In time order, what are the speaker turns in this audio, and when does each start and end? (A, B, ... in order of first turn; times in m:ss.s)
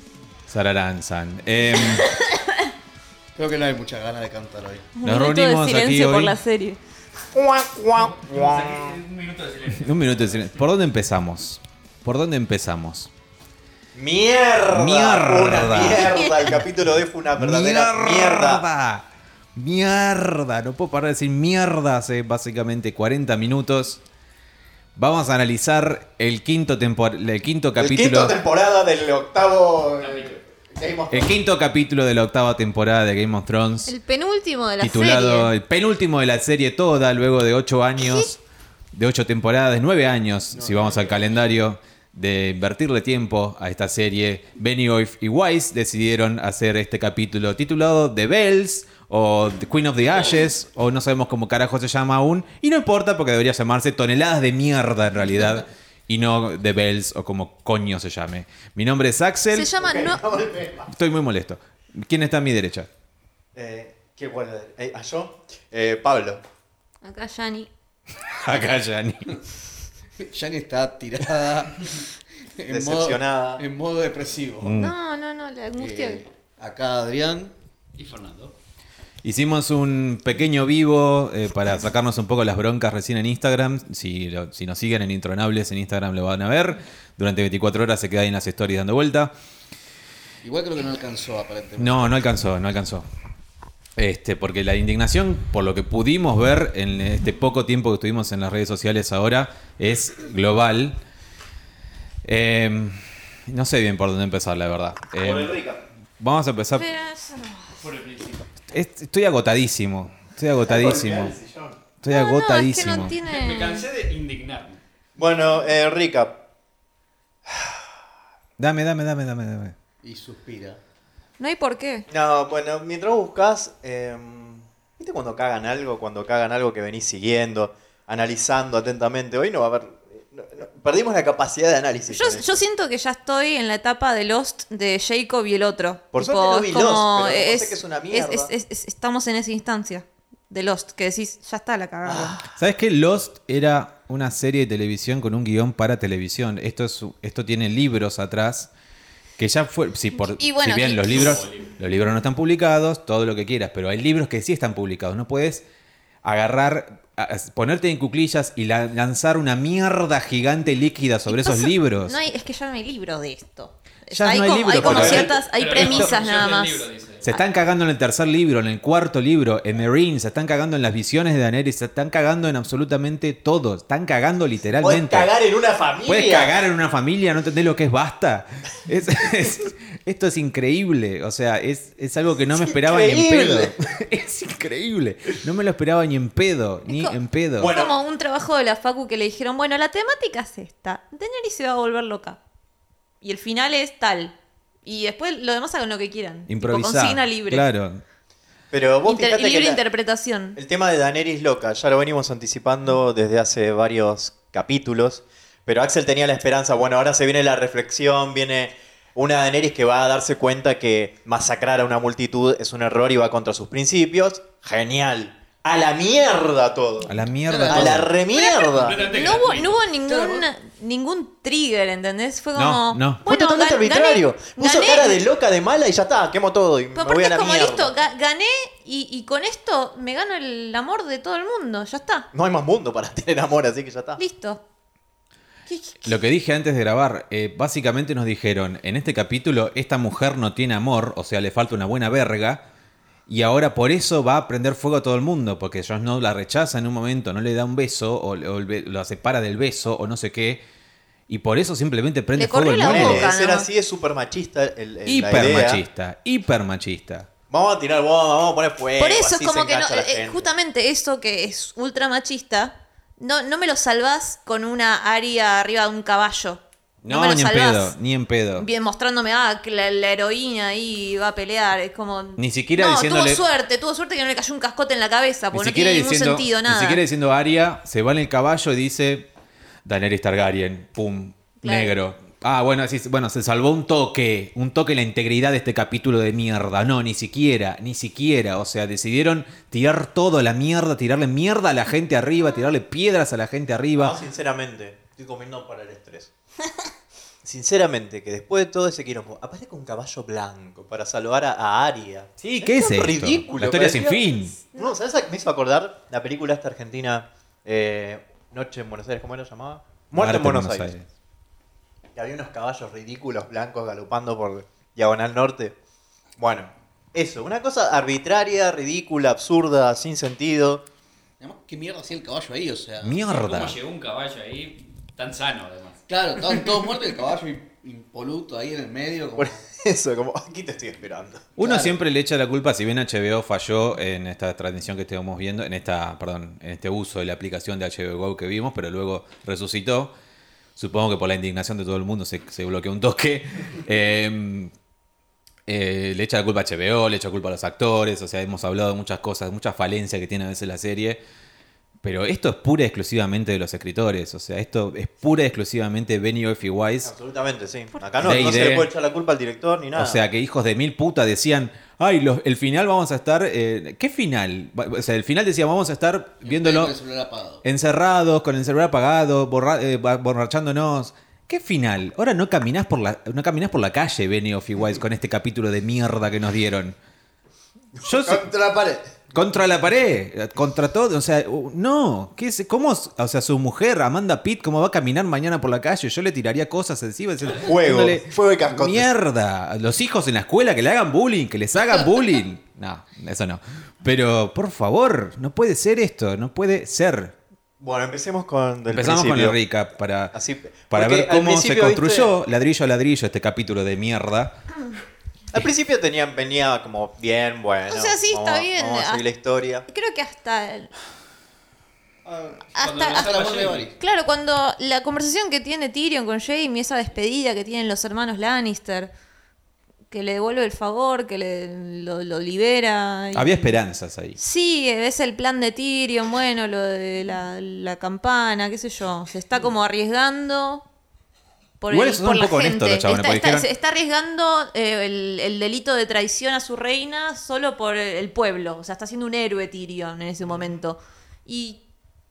0:00.5-0:02.1 A
0:02.0-0:02.7 B
0:03.4-0:04.9 C
0:05.0-0:06.8 B
0:05.0-0:06.4 A
0:07.3-0:09.0 D
0:08.0-0:10.5 E
0:09.7-0:13.1 A
0:13.9-0:18.6 D
0:14.7-0:16.3 A
0:17.4-0:24.0 A
0:25.0-0:28.4 A
0:27.8-0:31.3 D
0:30.0-0:30.4 E
0:31.1-0:33.9 A
0:33.9-0:35.5 B
0:34.8-0:38.4 A
0:38.0-0:38.3 B
0:38.9-0:59.7 A
0:40.5-0:41.3 C
0:59.5-1:00.2 B
0:59.8-1:00.9 D
1:00.9-1:02.9 A
1:03.6-1:06.4 D
1:07.0-1:07.7 B
1:08.2-1:09.4 A
1:10.2-1:12.0 C
1:12.6-1:14.8 C
1:12.7-1:13.6 D
1:14.6-1:14.9 A
1:14.8-1:16.2 B
1:15.8-1:17.6 C
1:18.0-1:18.6 E
1:19.2-1:29.3 A
1:30.4-1:32.1 C
1:31.8-1:33.1 A
1:34.0-1:41.0 A
1:42.2-1:45.6 A
1:45.2-1:45.8 D
1:46.2-1:46.9 A
1:46.8-1:47.8 B
1:47.8-1:48.5 E
1:48.7-1:51.4 A
1:50.6-1:51.8 D
1:52.0-1:53.2 A
1:52.1-1:53.9 B
1:53.2-1:54.8 E
1:55.2-1:56.4 D
1:57.5-1:57.8 D
1:58.6-1:59.8 A
2:00.0-2:00.8 C
2:01.4-2:02.1 B
2:02.1-2:12.6 D
2:12.1-2:22.4 B
2:16.1-2:18.5 D
2:22.1-2:22.5 D
2:22.6-2:28.7 A
2:29.4-2:35.6 A
2:30.2-2:31.4 B
2:31.2-2:31.7 E
2:36.2-2:42.2 A
2:41.3-2:46.9 B
2:44.1-2:46.1 A
2:44.8-2:47.4 E
2:44.8-2:45.3 D
2:47.2-2:55.3 A
2:54.8-2:56.5 D
2:56.0-3:07.7 A
3:02.5-3:03.8 D
3:06.9-3:12.4 B
3:07.6-3:08.0 D
3:13.2-3:17.7 B
3:16.5-3:18.0 A
3:18.7-3:19.8 D
3:19.1-3:20.6 B
3:20.6-3:37.1 D
3:37.1-3:38.1 A
3:37.4-3:38.1 C
3:37.7-3:39.0 D
3:38.3-3:45.2 B
3:38.7-3:39.8 E
3:40.1-3:40.5 C
3:42.6-3:43.2 A
3:43.2-3:47.9 D
3:47.0-3:52.3 B
3:52.3-3:54.2 D
3:54.2-3:54.6 B
3:55.7-3:56.1 B
3:56.0-4:02.6 A
4:03.3-4:10.6 A
4:11.3-4:13.3 A
4:12.4-4:13.7 B
4:12.8-4:15.8 D
4:15.1-4:17.3 A
4:17.5-4:20.5 D
4:19.0-4:27.9 B
4:27.0-4:28.7 A
4:28.6-4:37.0 B
4:32.4-4:33.4 A
4:35.5-4:39.3 A
4:39.8-4:54.2 A
4:41.6-4:42.0 B
4:54.0-4:56.3 D
4:57.4-5:04.2 D
5:02.4-5:04.6 A
5:04.6-5:04.9 B
5:04.7-5:10.9 D
5:10.2-5:11.1 A
5:12.2-5:15.8 D
5:16.4-5:20.8 D
5:21.4-5:23.2 C
5:23.0-5:23.8 A
5:23.2-5:26.6 E
5:26.1-5:29.6 C
5:29.4-5:31.5 D
5:31.6-5:40.1 A
5:31.6-5:31.9 C
5:40.8-5:44.7 A
5:45.7-5:51.2 A
5:52.0-5:57.1 A
5:57.0-6:00.2 D
5:58.2-5:58.9 A
6:00.0-6:06.9 A
6:06.4-6:07.6 C
6:07.6-6:17.0 A
6:18.0-6:19.4 D
6:18.0-6:18.5 A
6:19.3-6:37.4 A
6:27.5-6:29.1 D
6:37.8-6:39.6 D
6:38.9-6:40.3 A
6:40.3-6:42.3 D
6:40.9-6:44.6 A
6:45.5-6:49.9 D
6:47.9-6:49.2 B
6:49.9-6:50.9 B
6:52.2-6:54.0 C
6:52.7-6:59.1 B
6:52.8-6:53.9 E
7:00.1-7:03.8 B
7:03.3-7:04.4 A
7:04.4-7:10.8 B
7:11.8-7:21.8 B
7:11.9-7:13.7 A